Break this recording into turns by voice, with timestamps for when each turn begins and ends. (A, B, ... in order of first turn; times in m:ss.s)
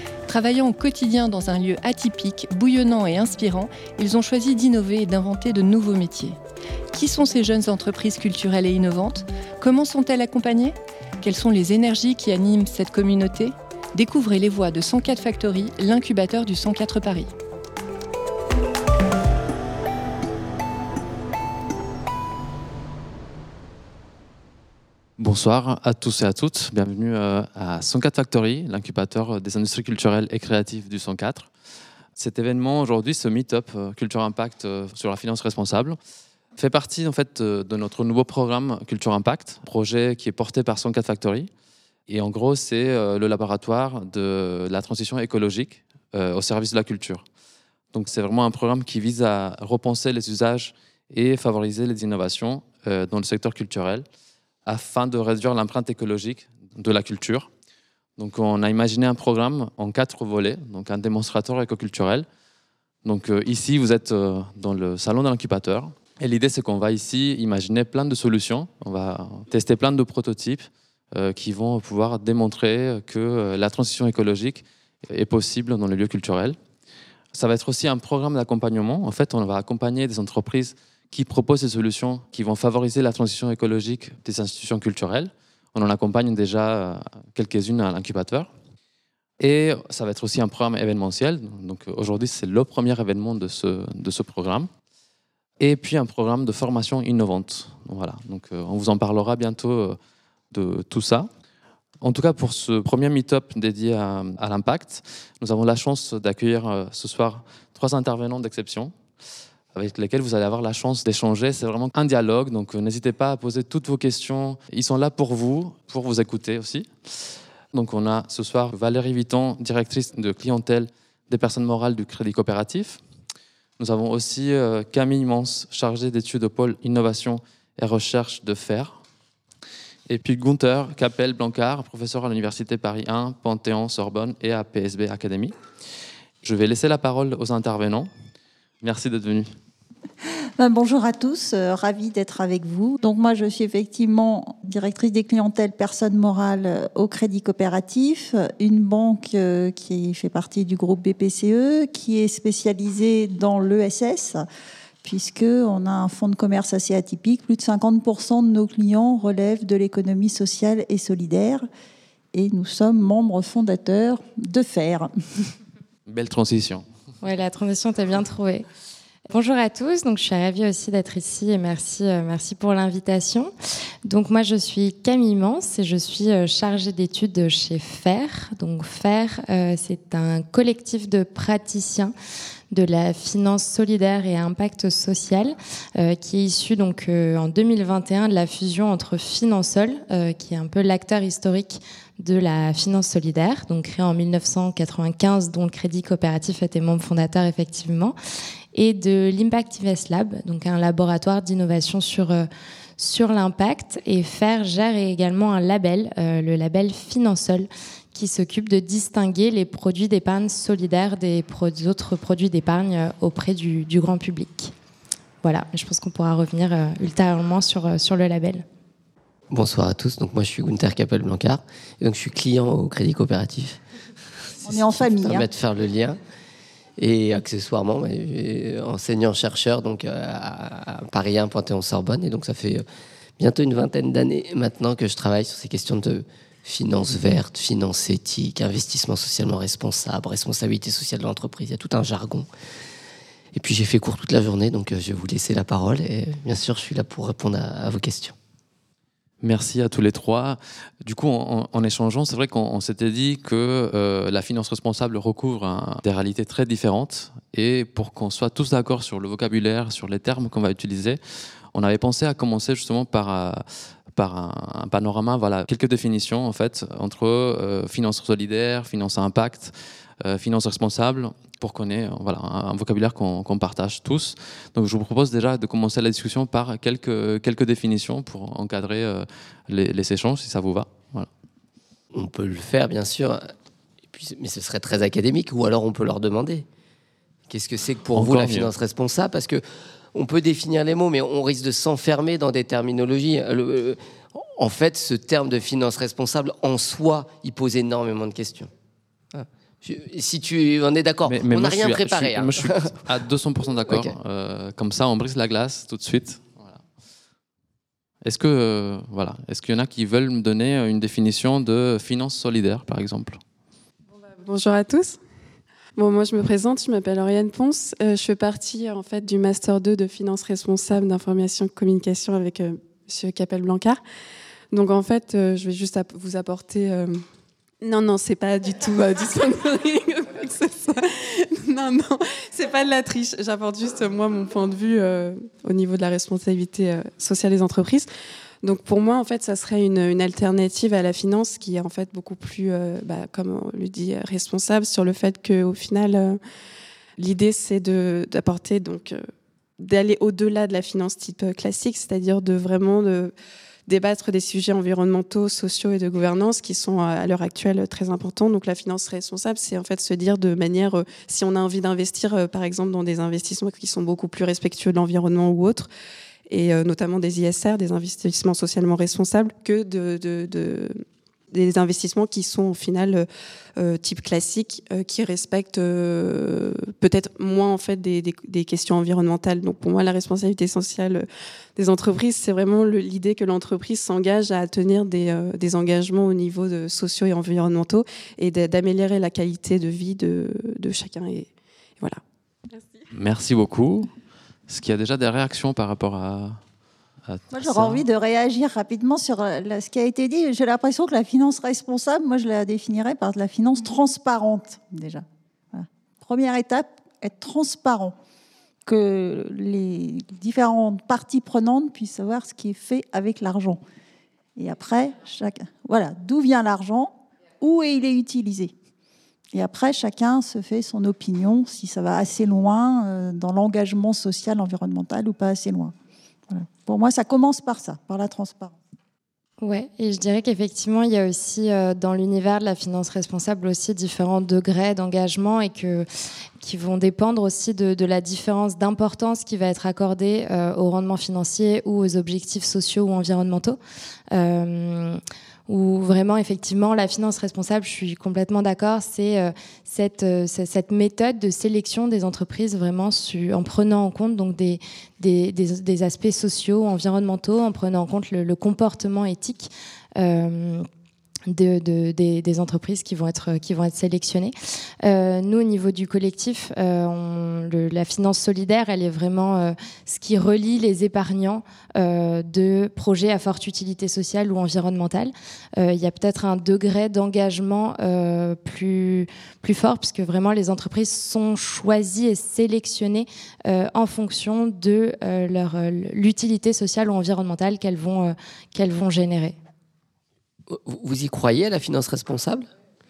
0:00.3-0:06.4 A
0:06.9-0:17.3 A
0:25.2-0:31.5 B
0:32.2-0:36.0 B
0:36.6-0:41.5 B
0:42.1-0:47.2 B
0:47.9-0:54.1 B
0:54.7-0:57.5 B
0:58.2-1:02.3 B
1:03.0-1:16.6 B
1:17.3-1:28.5 B
1:29.4-1:34.7 B
1:35.6-1:40.0 B
1:40.5-1:41.3 B
1:42.0-1:49.0 B
1:49.7-1:56.9 B
1:57.7-2:03.0 B
2:03.8-2:09.0 B
2:10.1-2:15.5 B
2:16.4-2:18.1 B
2:18.8-2:19.5 B
2:20.6-2:34.4 C
2:35.0-2:41.7 C
2:42.3-2:45.1 C
2:46.1-2:46.8 B
2:47.2-2:48.7 D
2:49.3-2:53.5 D
2:54.0-3:02.1 D
3:02.7-3:18.2 D
3:18.7-3:22.5 D
3:23.0-3:34.7 D
3:35.4-3:38.6 D
3:39.5-3:43.8 E
3:44.6-3:46.2 E
3:44.6-3:45.5 C
3:47.0-3:52.8 E
3:53.4-4:02.5 E
4:03.5-4:08.4 E
4:09.4-4:21.2 B
4:21.7-4:41.3 B
4:42.1-4:43.5 E
4:44.1-4:46.6 E
4:47.5-4:49.6 E
4:48.1-4:48.7 B
4:50.1-4:58.7 E
4:59.3-5:03.0 E
5:01.3-5:06.8 B
5:03.9-5:04.1 E
5:08.2-5:13.4 B
5:14.2-5:15.2 F
5:16.0-5:24.0 F
5:24.7-5:27.2 F
5:27.8-5:38.1 F
5:38.6-5:46.4 F
5:47.2-5:49.3 F
5:49.8-5:53.3 F
5:53.9-6:05.9 F
6:06.5-6:32.2 F
6:33.1-6:34.1 B
6:34.7-6:36.6 B
6:37.3-6:38.0 B
6:37.5-6:48.2 C
6:48.8-6:53.8 C
6:54.6-6:58.7 C
6:59.5-7:05.9 C
7:06.5-7:08.8 C
7:09.6-7:16.1 D
7:16.6-7:23.8 D
7:24.3-7:40.9 D
7:41.5-8:09.6 D
8:10.7-8:12.7 E